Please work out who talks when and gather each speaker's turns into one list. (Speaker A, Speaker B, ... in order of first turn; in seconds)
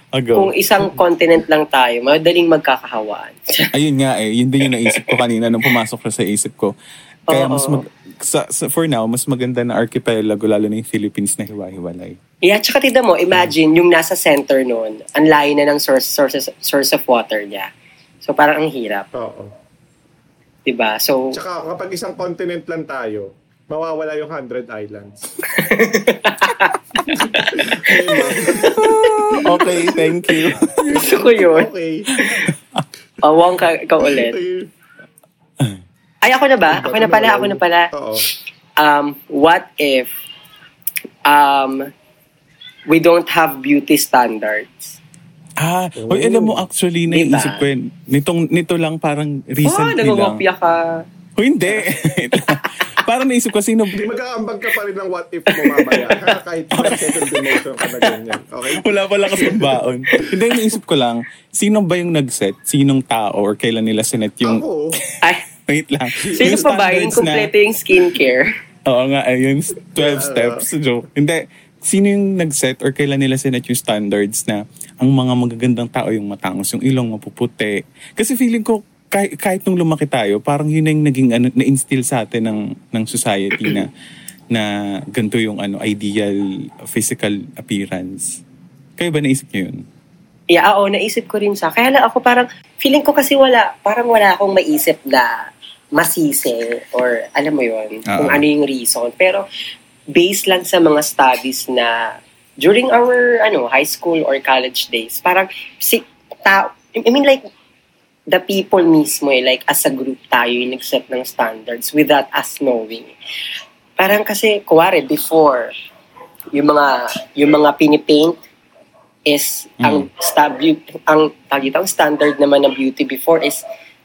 Speaker A: 0.1-0.5, 3.7-6.7, 7.3-12.2, 29.4-31.0, 32.1-32.9, 45.6-50.4, 51.4-54.0, 56.7-57.4, 58.7-67.5, 68.9-83.9, 84.5-88.4, 89.0-89.8, 98.1-98.5, 119.8-120.1
Speaker B: 0.3-3.7, 4.7-5.2, 7.3-7.8, 12.4-17.7, 18.2-19.1, 20.6-21.4, 25.5-29.5, 30.3-31.7, 33.2-34.4, 36.2-37.9, 38.8-40.1, 41.2-41.9, 42.9-45.0, 47.1-47.7, 49.6-51.0, 55.5-56.1, 66.3-68.5, 90.5-99.5, 100.1-107.5, 108.3-113.1, 114.0-115.7, 116.5-118.4, 119.3-123.6
Speaker C: 19.1-19.5, 21.3-25.3, 27.1-30.0, 30.8-32.1, 34.0-34.7, 36.7-38.3, 46.0-46.7, 54.0-60.3, 64.4-65.0, 66.2-66.6, 70.0-70.6